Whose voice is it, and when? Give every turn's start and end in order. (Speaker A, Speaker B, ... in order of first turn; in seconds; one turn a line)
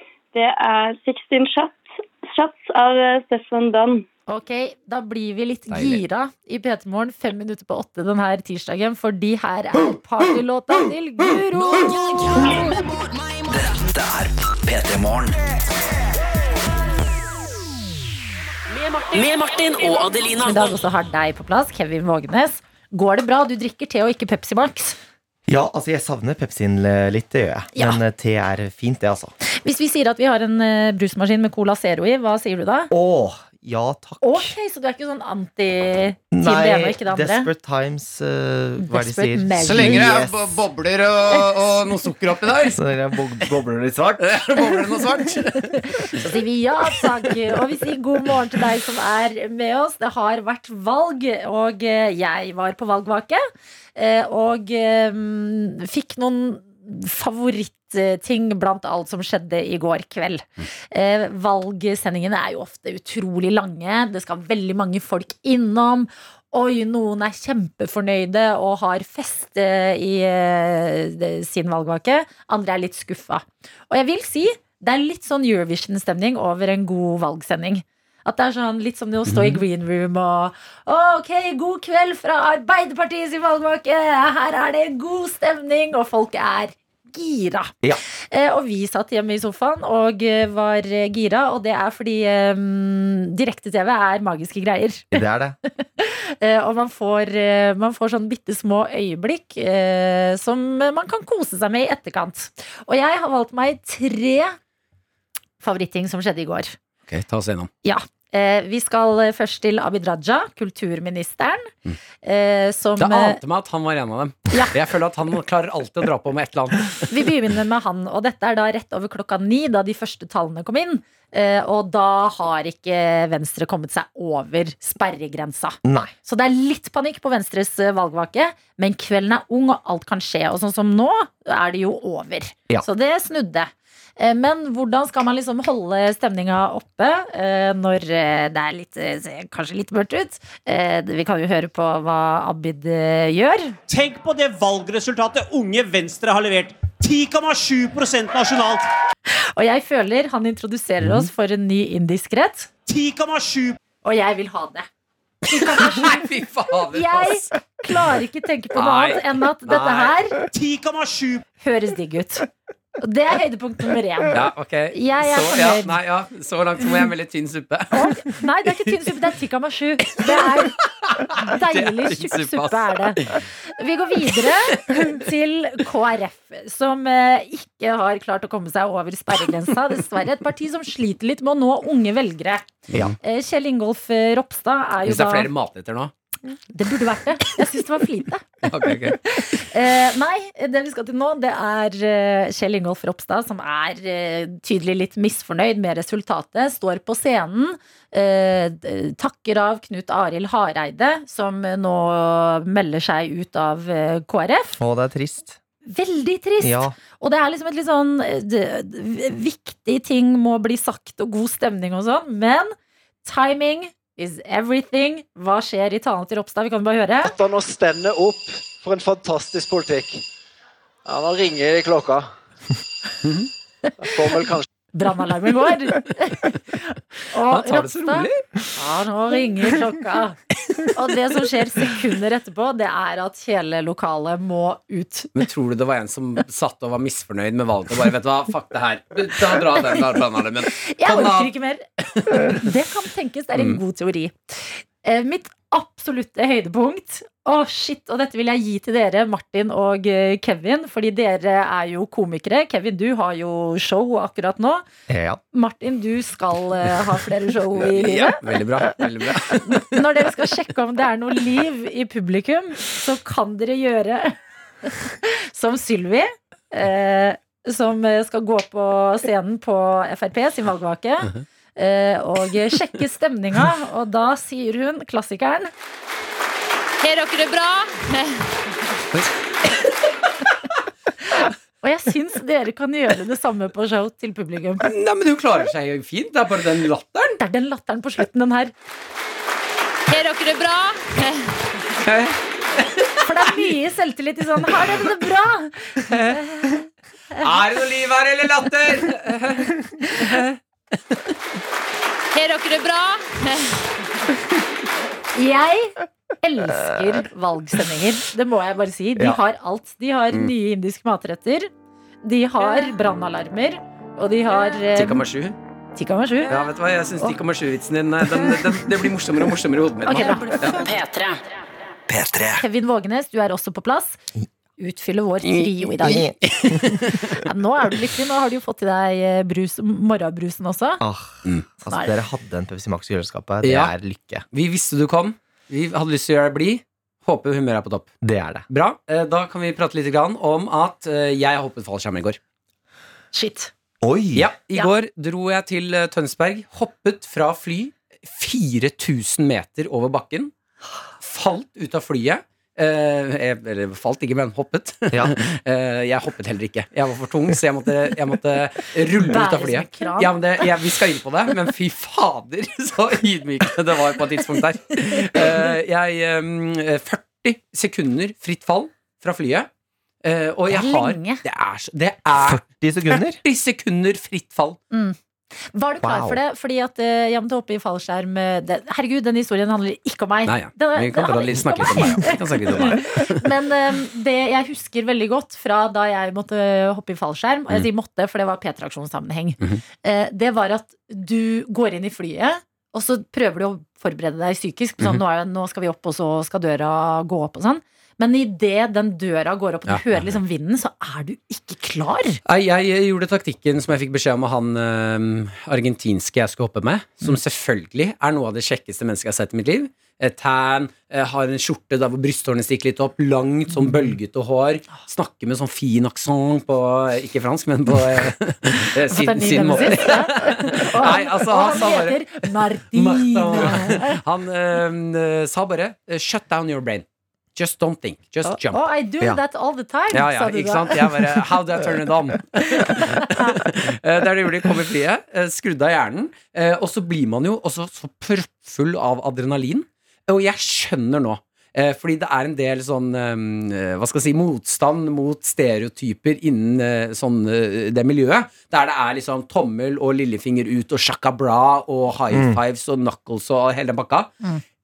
Speaker A: 0.3-4.0
Speaker B: 4.3-12.7
Speaker C: 5.7-6.0
Speaker D: 13.5-15.4
Speaker E: 18.7-20.7
Speaker B: 20.5-25.0
Speaker F: 25.5-29.3
Speaker B: 27.7-28.0
Speaker B: 29.5-32.9
Speaker F: 32.9-34.5
Speaker B: 34.2-37.5
Speaker F: 36.3-40.6
Speaker B: 38.8-40.0
Speaker C: 39.6-42.8
Speaker F: 42.7-44.6
Speaker C: 44.2-46.1
Speaker B: 46.0-53.4
Speaker B: 54.0-87.7
Speaker C: 79.3-79.6
Speaker B: 88.3-95.2
Speaker F: 95.1-95.6
Speaker B: 95.8-104.6
Speaker B: 105.6-106.7
Speaker C: 107.1-107.7
Speaker B: 107.8-111.7
Speaker B: 112.2-113.4
Speaker C: 113.0-117.1
Speaker B: 117.1-143.8
Speaker F: 125.8-126.1
Speaker G: 143.9-148.9
Speaker B: 149.3-152.7
Speaker G: 152.8-153.8
Speaker B: 154.0-154.9
Speaker B: 155.5-156.2
Speaker C: 155.6-157.5
Speaker B: 156.9-160.4
Speaker C: 158.8-160.1
Speaker G: 160.5-161.4
Speaker B: 161.6-162.5
Speaker B: 163.0-165.9
Speaker C: 164.3-168.4
Speaker B: 167.9-182.7
Speaker C: 170.3-173.4
Speaker B: 183.2-185.5
Speaker C: 185.0-186.1
Speaker B: 186.7-188.6
Speaker C: 188.6-189.2
Speaker B: 189.2-204.8
Speaker F: 204.8-205.6
Speaker B: 205.8-217.3
Speaker F: 206.6-206.9
Speaker H: 217.2-220.2
Speaker H: 221.0-222.3
Speaker C: 223.2-223.5
Speaker H: 224.0-224.6
Speaker B: 224.9-230.4
Speaker C: 227.4-228.5
Speaker B: 230.9-235.4
Speaker C: 235.3-241.5
Speaker B: 240.9-254.8
Speaker C: 242.1-242.6
Speaker F: 255.1-255.4
Speaker B: 255.5-258.4
Speaker C: 257.9-260.2
Speaker B: 259.5-275.7
Speaker I: 277.0-278.8
Speaker C: 279.1-279.9
Speaker B: 281.3-284.9
Speaker C: 284.8-287.4
Speaker B: 287.4-288.7
Speaker I: 290.1-291.8
Speaker C: 292.0-293.1
Speaker B: 293.2-297.5
Speaker C: 297.4-300.5
Speaker I: 302.3-303.9
Speaker B: 305.3-311.7
Speaker B: 312.2-315.2
Speaker C: 314.9-315.6
Speaker B: 315.9-316.6
Speaker C: 316.5-320.8
Speaker B: 320.0-320.9
Speaker E: 320.7-321.4
Speaker D: 322.1-322.6
Speaker B: 322.6-324.2
Speaker B: 324.8-326.3
Speaker F: 326.0-326.9
Speaker C: 326.2-327.3
Speaker B: 327.3-331.0
Speaker F: 331.0-334.4
Speaker B: 331.9-332.1
Speaker C: 333.6-333.9
Speaker C: 334.5-338.1
Speaker F: 338.2-338.6
Speaker C: 338.7-342.4
Speaker B: 343.3-343.7
Speaker F: 344.0-344.5
Speaker C: 344.3-350.5
Speaker C: 351.2-369.7
Speaker F: 355.1-355.4
Speaker B: 359.1-360.4
Speaker C: 370.2-374.8
Speaker B: 370.7-371.4
Speaker F: 372.3-373.4
Speaker B: 374.9-375.2
Speaker B: 375.7-402.4
Speaker F: 376.0-376.4
Speaker C: 380.4-383.4
Speaker C: 399.9-400.4
Speaker C: 402.4-422.2
Speaker B: 419.1-424.1
Speaker C: 422.9-428.8
Speaker B: 428.4-431.1
Speaker C: 430.1-454.3
Speaker B: 432.8-433.6
Speaker F: 452.3-452.6